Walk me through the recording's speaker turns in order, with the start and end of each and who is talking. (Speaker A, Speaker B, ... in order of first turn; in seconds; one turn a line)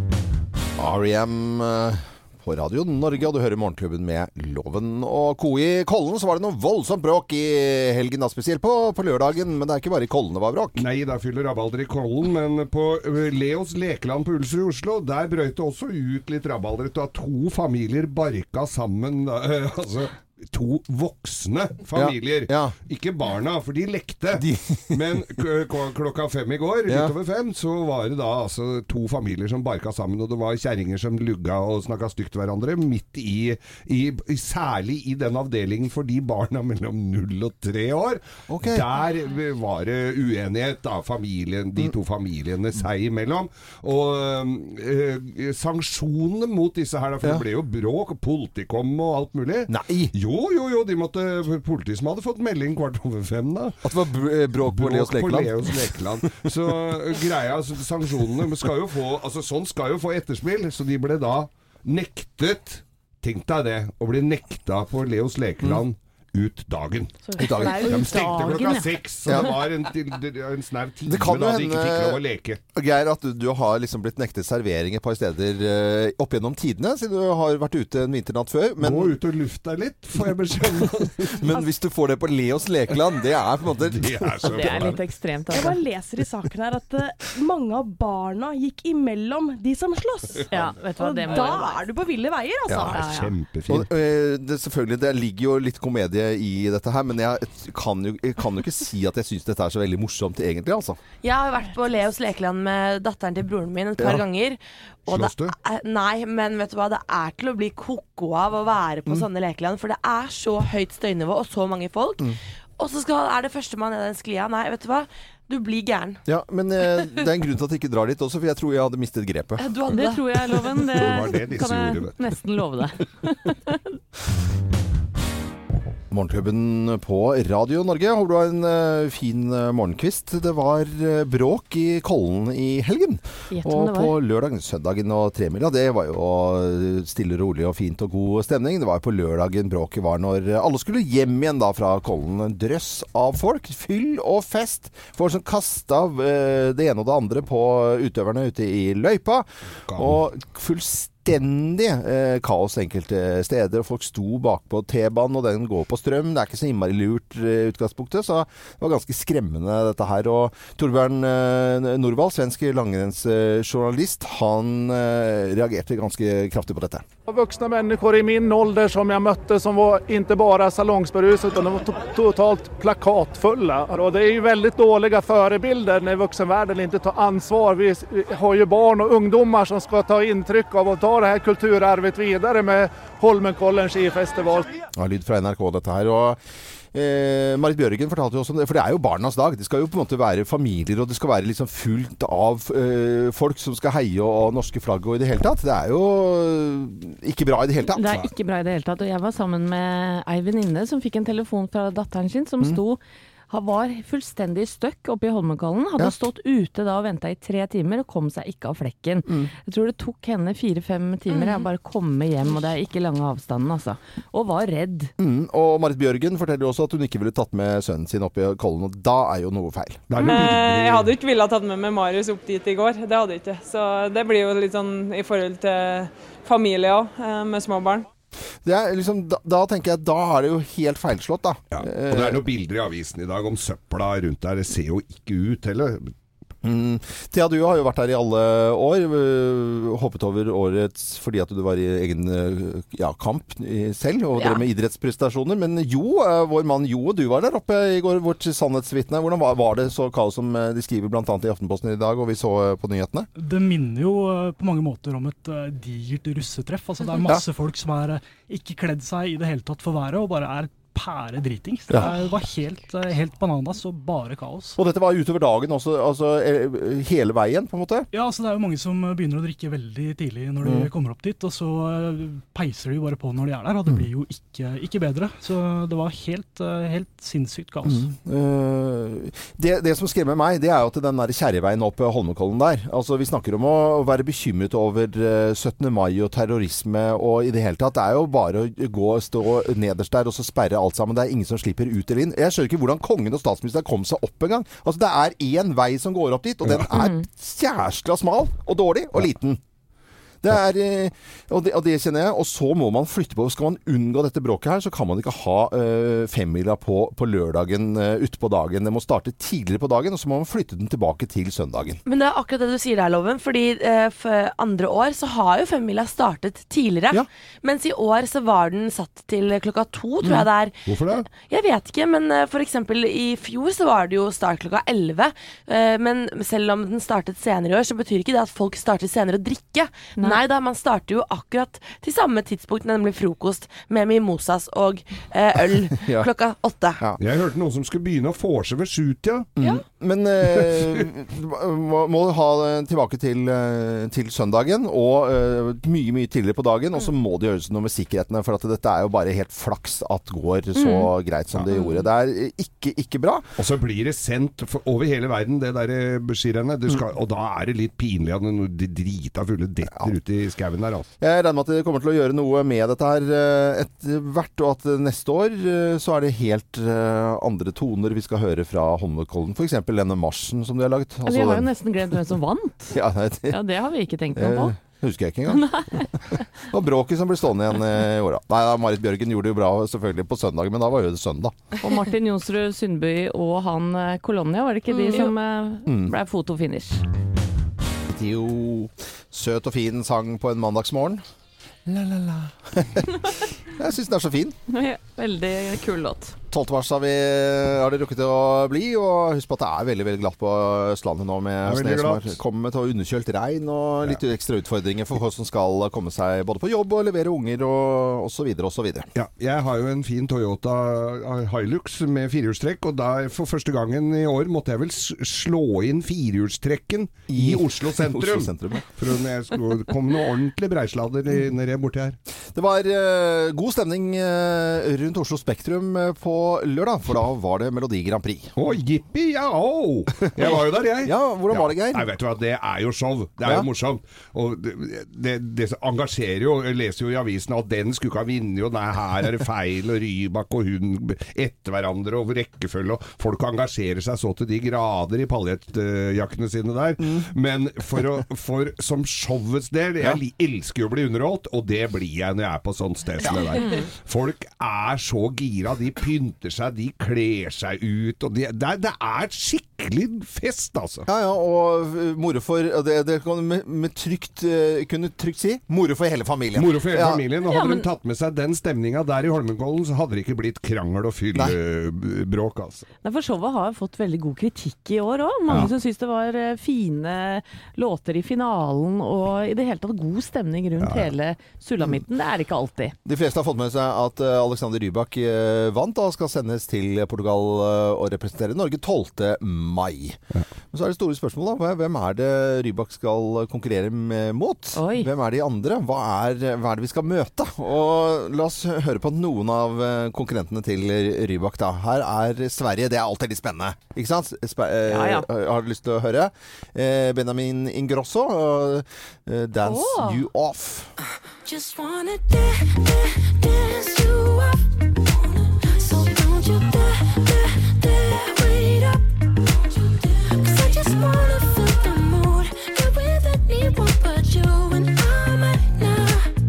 Speaker A: 0.8-10.8
Speaker B: 10.8-53.8
Speaker A: 21.9-22.7
Speaker A: 24.3-25.0
Speaker A: 26.9-27.1
Speaker A: 38.5-38.8
Speaker A: 49.7-50.1
Speaker A: 53.8-56.5
Speaker B: 54.6-72.6
Speaker C: 67.2-68.6
Speaker A: 67.4-67.8
Speaker D: 67.7-68.9
Speaker A: 71.1-72.2
Speaker A: 72.7-79.2
Speaker B: 78.8-81.4
Speaker A: 80.8-85.0
Speaker B: 83.8-85.0
Speaker D: 84.4-85.8
Speaker C: 85.5-90.5
Speaker D: 90.5-91.8
Speaker C: 91.0-93.0
Speaker D: 92.9-93.3
Speaker B: 92.9-93.9
Speaker A: 93.7-101.0
Speaker E: 101.2-116.2
Speaker B: 105.1-105.5
Speaker A: 116.2-119.6
Speaker E: 119.6-120.8
Speaker D: 119.9-123.8
Speaker B: 120.9-122.1
Speaker A: 126.1-167.0
Speaker D: 133.5-134.1
Speaker B: 149.8-150.2
Speaker F: 167.3-184.7
Speaker A: 184.9-186.4
Speaker A: 186.9-198.3
Speaker D: 197.9-215.1
Speaker E: 211.3-211.7
Speaker A: 215.2-220.2
Speaker B: 220.1-221.2
Speaker G: 220.2-228.1
Speaker A: 228.6-232.4
Speaker B: 231.7-236.1
Speaker A: 236.6-253.3
Speaker E: 244.4-244.6
Speaker H: 253.4-264.8
Speaker A: 264.8-268.1
Speaker H: 268.1-278.1
Speaker A: 270.6-270.9
Speaker A: 277.8-299.6
Speaker D: 296.9-297.2
Speaker A: 300.4-312.0
Speaker E: 312.0-337.0
Speaker B: 320.9-321.2
Speaker D: 330.2-330.4
Speaker A: 336.0-336.3
Speaker B: 337.2-339.5
Speaker A: 339.6-353.5
Speaker B: 340.6-341.0
Speaker D: 350.7-351.1
Speaker B: 353.6-361.1
Speaker A: 359.9-360.1
Speaker A: 361.2-371.7
Speaker D: 371.2-373.0
Speaker A: 372.9-373.6
Speaker D: 373.5-374.8
Speaker A: 374.3-381.6
Speaker D: 375.5-376.4
Speaker D: 381.8-387.0
Speaker C: 384.9-385.3
Speaker A: 385.8-386.1
Speaker A: 388.1-391.2
Speaker A: 391.9-394.6
Speaker D: 394.7-396.4
Speaker A: 396.5-409.1
Speaker B: 401.6-402.4
Speaker B: 409.1-422.2
Speaker A: 417.3-418.9
Speaker A: 422.5-428.5
Speaker B: 428.6-461.1
Speaker A: 430.2-432.1
Speaker A: 447.0-447.3
Speaker D: 453.6-453.9
Speaker A: 461.1-467.2
Speaker B: 466.5-472.9
Speaker D: 467.4-467.9
Speaker D: 473.0-482.9
Speaker B: 480.8-481.1
Speaker A: 483.0-490.2
Speaker A: 490.7-510.9
Speaker D: 494.7-495.1
Speaker D: 504.9-505.3
Speaker E: 509.6-510.2
Speaker I: 511.4-526.3